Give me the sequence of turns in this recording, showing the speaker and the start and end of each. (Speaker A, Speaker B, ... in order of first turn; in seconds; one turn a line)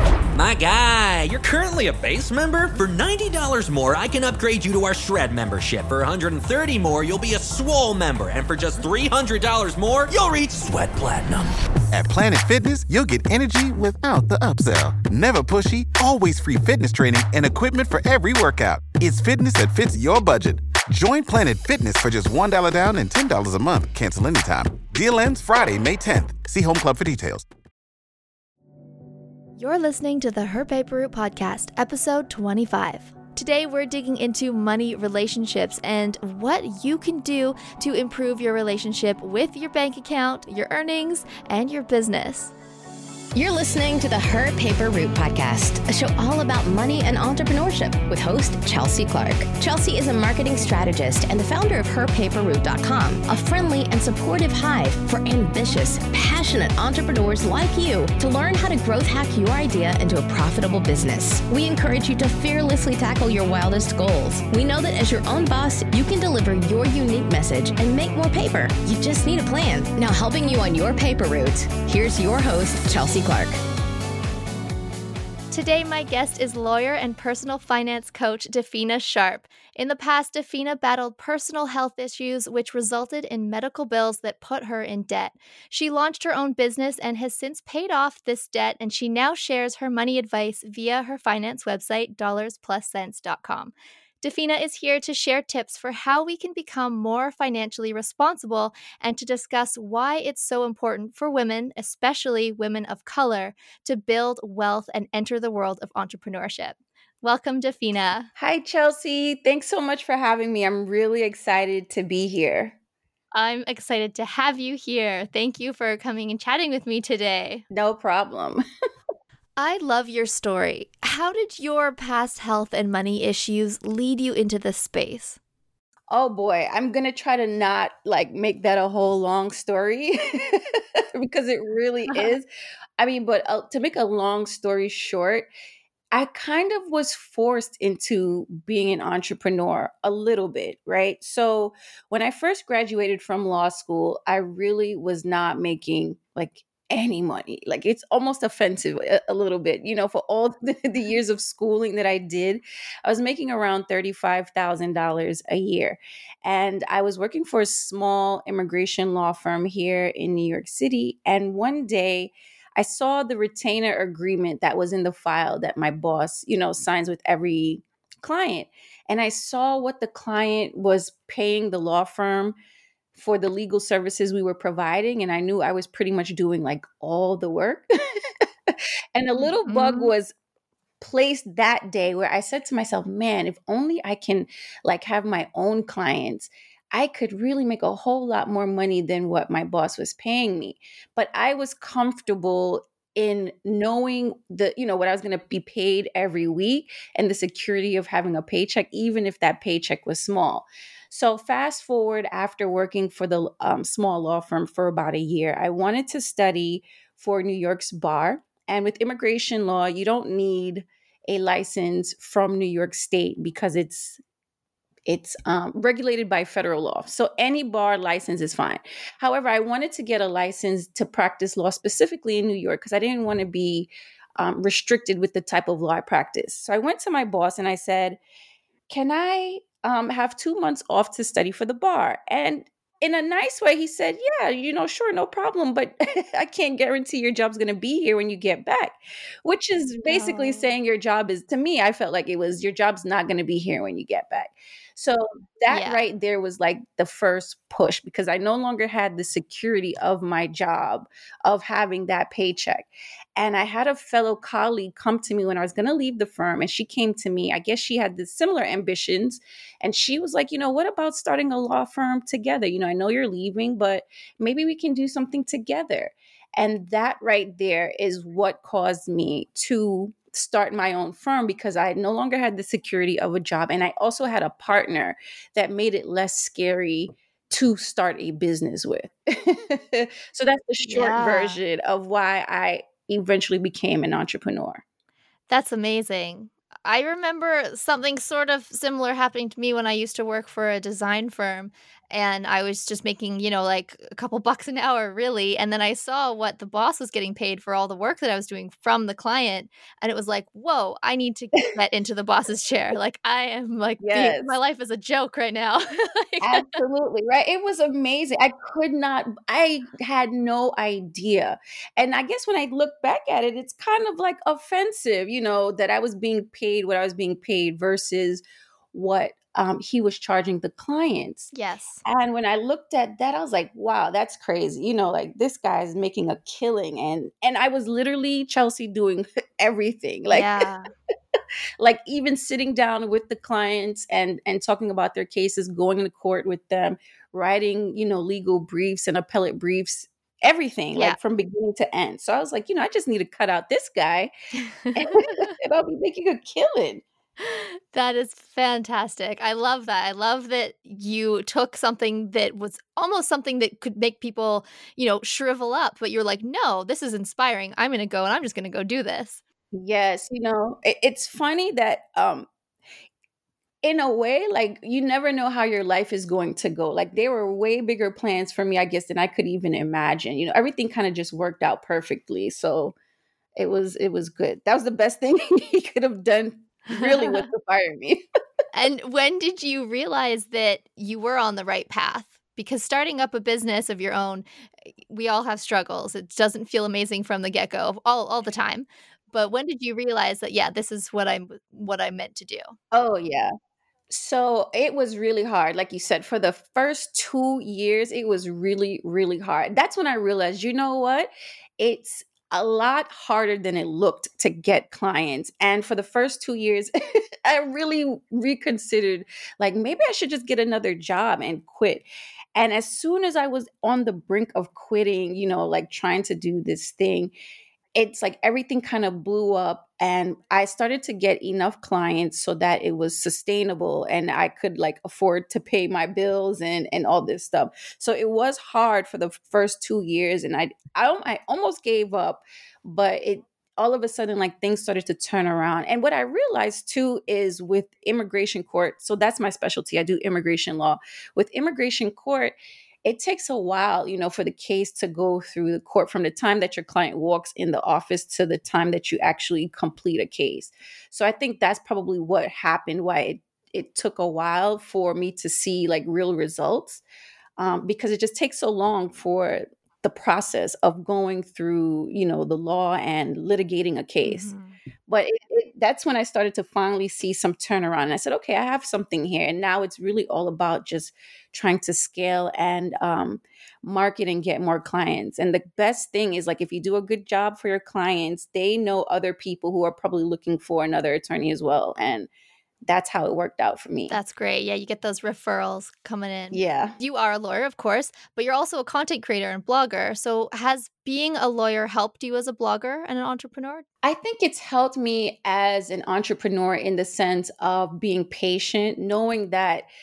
Speaker A: 0.3-11.5
Speaker B: 11.9-27.4
Speaker C: 29.6-42.5
Speaker D: 43.3-73.6
Speaker C: 75.5-108.3
Speaker E: 108.3-112.7
Speaker C: 113.3-117.6
Speaker E: 117.7-118.6
Speaker C: 119.6-125.4
Speaker E: 126.1-132.5
Speaker E: 133.0-135.5
Speaker E: 136.1-172.6
Speaker E: 173.1-180.3
Speaker C: 179.4-180.1
Speaker E: 181.0-214.2
Speaker E: 215.1-228.2
Speaker E: 228.9-284.8
Speaker C: 240.1-240.7
Speaker C: 245.7-246.0
Speaker C: 280.8-281.6
Speaker C: 285.5-306.8
Speaker E: 304.0-304.6
Speaker E: 306.4-321.5
Speaker C: 321.5-322.0
Speaker E: 322.0-330.6
Speaker C: 330.3-330.9
Speaker E: 331.8-344.3
Speaker C: 344.6-345.5
Speaker E: 344.9-347.0
Speaker C: 347.4-359.4
Speaker E: 359.7-362.5
Speaker E: 363.8-372.9
Speaker E: 373.6-378.2
Speaker C: 376.9-377.5
Speaker C: 378.7-384.4
Speaker C: 385.1-392.8
Speaker E: 392.9-393.5
Speaker E: 394.1-417.3
Speaker E: 417.9-457.0
Speaker E: 457.6-464.5
Speaker C: 464.2-464.8
Speaker E: 465.1-482.3
Speaker E: 482.8-484.2
Speaker C: 484.1-493.8
Speaker E: 486.5-487.0
Speaker E: 494.0-499.9